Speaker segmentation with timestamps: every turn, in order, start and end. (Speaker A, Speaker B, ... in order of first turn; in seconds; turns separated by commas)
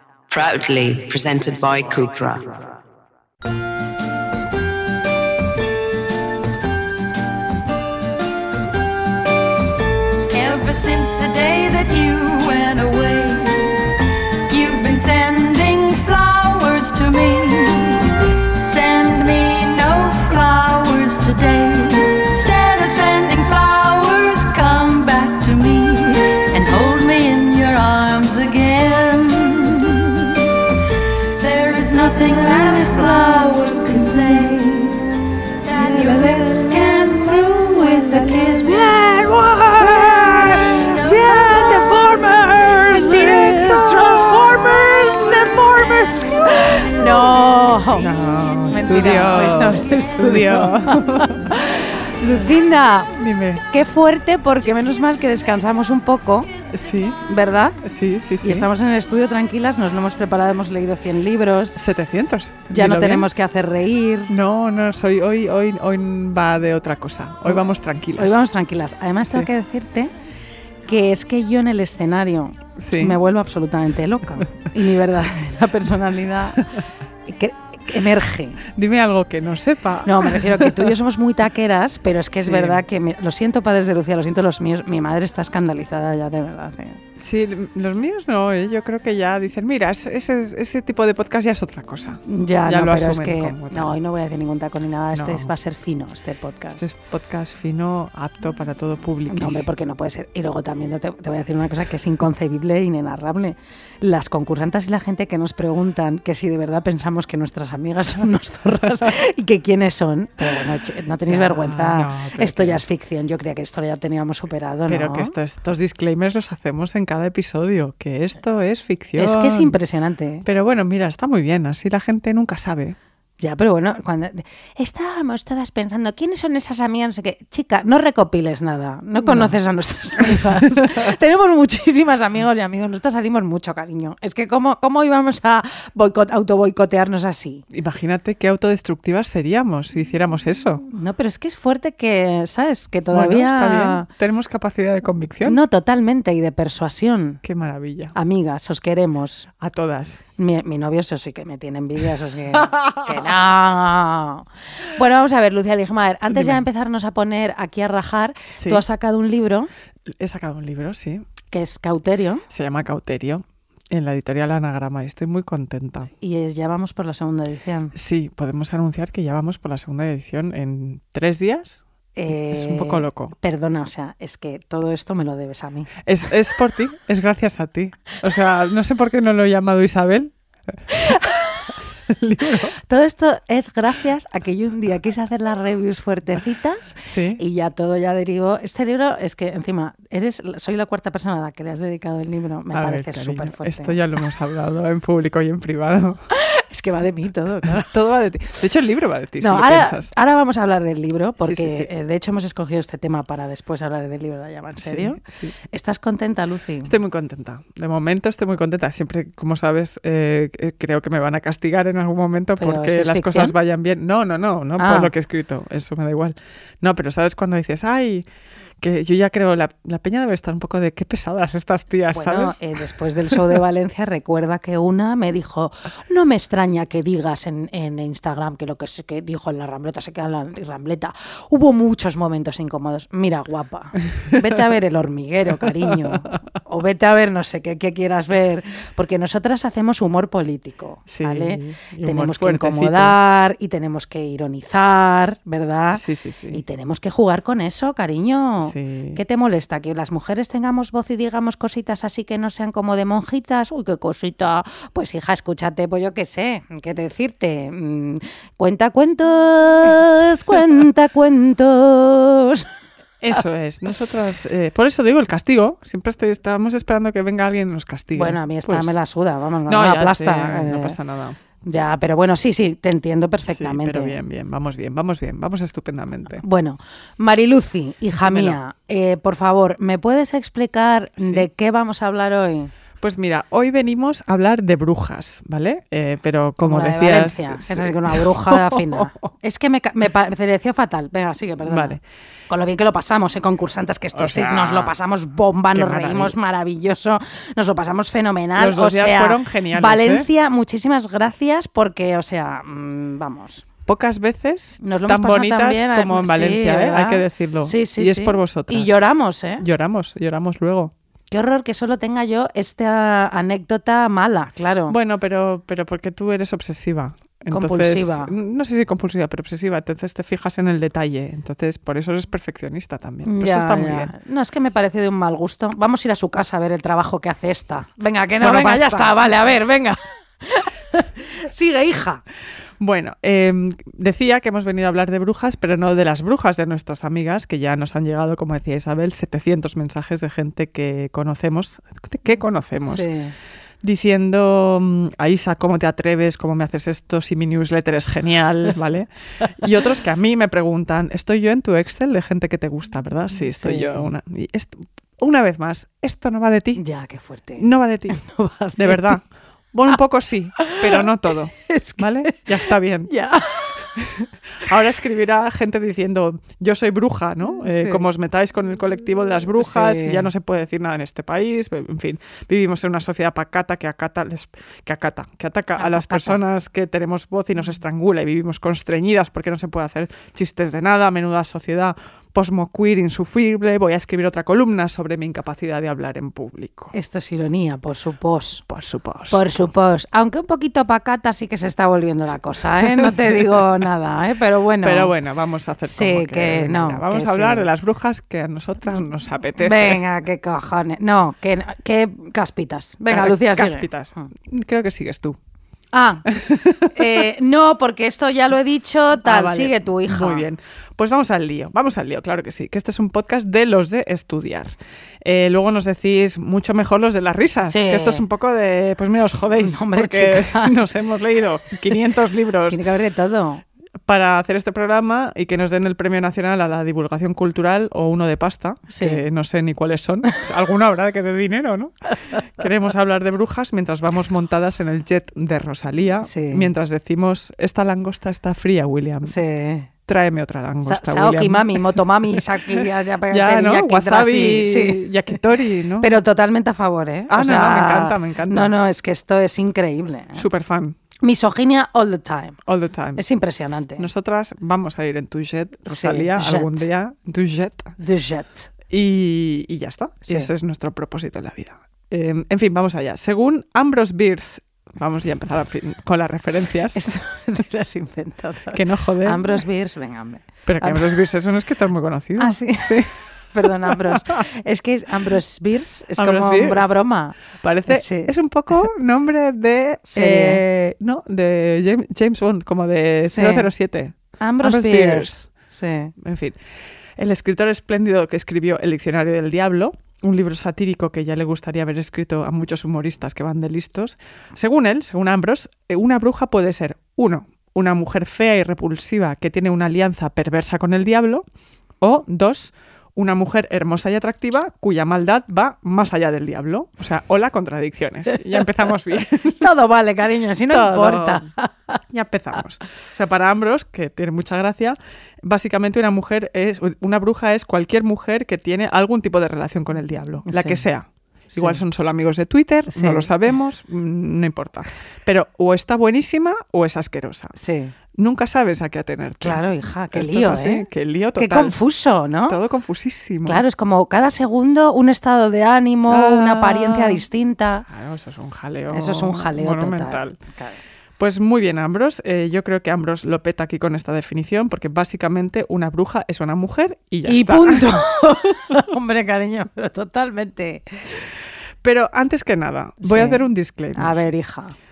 Speaker A: 0.3-2.5, Speaker B: 10.3-13.6, Speaker B: 14.5-17.6, Speaker B: 18.8-21.2, Speaker C: 21.2-21.7, Speaker B: 22.3-26.2, Speaker C: 26.5-27.5, Speaker C: 28.1-29.6, Speaker B: 31.4-34.8, Speaker C: 32.1-34.8, Speaker B: 35.7-38.9, Speaker C: 35.7-48.1, Speaker D: 39.8-41.7, Speaker B: 40.8-42.0, Speaker D: 42.2-44.4, Speaker D: 48.0-51.6, Speaker C: 48.7-53.1, Speaker D: 53.2-53.6, Speaker C: 53.7-56.5, Speaker D: 56.7-57.2, Speaker C: 57.3-57.8, Speaker D: 57.8-58.7, Speaker C: 58.4-61.8, Speaker D: 61.8-63.3, Speaker C: 62.7-64.3, Speaker D: 64.3-68.5, Speaker C: 68.2-70.1, Speaker C: 70.8-76.7, Speaker D: 72.8-73.2, Speaker C: 77.3-78.6, Speaker D: 78.7-80.9, Speaker C: 80.1-87.0, Speaker D: 82.4-82.8, Speaker D: 87.2-94.0, Speaker C: 92.3-96.8, Speaker D: 95.1-95.5, Speaker D: 96.8-99.7, Speaker C: 99.3-115.3, Speaker D: 111.3-112.8, Speaker D: 114.9-119.8, Speaker C: 119.2-120.5, Speaker D: 120.4-123.0, Speaker C: 123.4-137.6, Speaker D: 129.2-129.6, Speaker D: 137.7-140.8, Speaker C: 140.9-144.1, Speaker D: 143.1-145.6, Speaker C: 145.4-147.4, Speaker D: 147.4-148.2, Speaker C: 148.2-149.5, Speaker D: 149.6-150.2, Speaker C: 150.4-159.7, Speaker D: 152.5-153.2, Speaker D: 156.3-156.7, Speaker D: 158.6-158.8, Speaker D: 160.1-161.2, Speaker C: 161.5-162.4, Speaker D: 162.5-166.1, Speaker C: 166.2-167.9, Speaker D: 167.9-173.3, Speaker C: 172.2-175.9, Speaker D: 176.1-180.3, Speaker C: 181.0-181.3, Speaker D: 182.1-182.8, Speaker C: 182.8-194.0, Speaker D: 187.0-187.4, Speaker D: 192.7-196.2, Speaker C: 196.3-197.9, Speaker D: 197.8-200.1, Speaker C: 199.4-206.9, Speaker D: 201.4-201.9, Speaker D: 204.8-205.5, Speaker D: 206.8-218.3, Speaker C: 212.6-213.6, Speaker C: 214.8-215.1, Speaker D: 218.8-222.6, Speaker C: 222.1-262.7, Speaker D: 223.3-223.6, Speaker D: 241.1-243.2, Speaker D: 245.9-246.6, Speaker D: 248.6-249.2, Speaker D: 263.2-269.0, Speaker C: 268.1-271.0, Speaker D: 269.7-271.4, Speaker C: 271.6-274.2, Speaker D: 273.5-276.4, Speaker C: 276.4-282.7, Speaker D: 278.2-278.6, Speaker D: 281.2-281.5, Speaker D: 283.0-289.2, Speaker C: 286.6-292.0, Speaker D: 291.6-292.0, Speaker C: 292.5-303.6, Speaker D: 294.1-294.9, Speaker D: 295.7-296.4, Speaker D: 298.6-300.3, Speaker D: 303.9-309.0, Speaker C: 304.8-309.6, Speaker D: 309.6-310.9, Speaker C: 311.3-315.0, Speaker D: 314.9-324.1, Speaker C: 317.5-318.3, Speaker C: 323.2-332.2, Speaker D: 328.4-329.1, Speaker D: 332.8-343.1, Speaker C: 342.9-343.4, Speaker D: 343.8-356.8, Speaker C: 353.6-354.1, Speaker C: 356.8-359.2, Speaker D: 357.6-358.2, Speaker D: 358.8-363.1, Speaker C: 360.6-361.1, Speaker C: 361.6-363.8, Speaker D: 363.9-386.9, Speaker C: 367.6-368.0, Speaker C: 369.6-370.3, Speaker C: 375.8-376.4, Speaker C: 386.9-388.6, Speaker D: 388.7-389.7, Speaker C: 389.3-395.1, Speaker D: 392.8-393.8, Speaker D: 394.8-400.0, Speaker C: 395.9-397.7, Speaker C: 399.6-404.3, Speaker D: 403.1-405.4, Speaker C: 405.9-406.3, Speaker D: 406.3-407.2, Speaker C: 406.9-410.4, Speaker D: 409.2-422.8, Speaker C: 417.7-418.2, Speaker C: 419.6-420.9, Speaker C: 422.7-423.6, Speaker D: 424.1-439.4, Speaker C: 428.9-429.2, Speaker C: 436.2-436.7, Speaker C: 439.2-439.9, Speaker D: 440.1-446.1, Speaker C: 440.8-445.0, Speaker C: 446.0-450.5, Speaker D: 447.3-448.7, Speaker D: 450.4-451.0, Speaker C: 451.2-452.6, Speaker D: 452.7-453.2, Speaker C: 453.2-454.1, Speaker D: 454.0-457.9, Speaker C: 455.9-456.9, Speaker C: 458.0-458.7, Speaker D: 458.9-467.0, Speaker C: 460.2-460.5, Speaker C: 466.9-471.2, Speaker D: 468.7-469.6, Speaker D: 470.7-474.4, Speaker C: 472.4-478.3, Speaker D: 476.2-477.0, Speaker D: 477.6-485.4, Speaker C: 480.1-480.6, Speaker C: 483.2-483.7, Speaker C: 484.4-486.1, Speaker D: 486.2-486.6, Speaker D: 487.2-501.4, Speaker D: 502.0-509.7, Speaker C: 508.3-508.7, Speaker C: 509.5-512.0, Speaker D: 510.7-511.5, Speaker D: 512.1-527.5, Speaker C: 520.5-520.8, Speaker C: 521.5-521.8, Speaker C: 522.9-523.3, Speaker C: 527.6-527.9, Speaker D: 528.1-531.8, Speaker C: 529.4-530.9, Speaker C: 531.4-532.6, Speaker D: 532.5-533.6, Speaker C: 533.5-537.9, Speaker D: 536.1-537.2, Speaker D: 537.9-540.4, Speaker C: 538.9-540.8, Speaker D: 541.2-548.8, Speaker C: 547.3-550.8, Speaker D: 551.8-554.3, Speaker C: 553.0-553.4, Speaker C: 554.0-554.7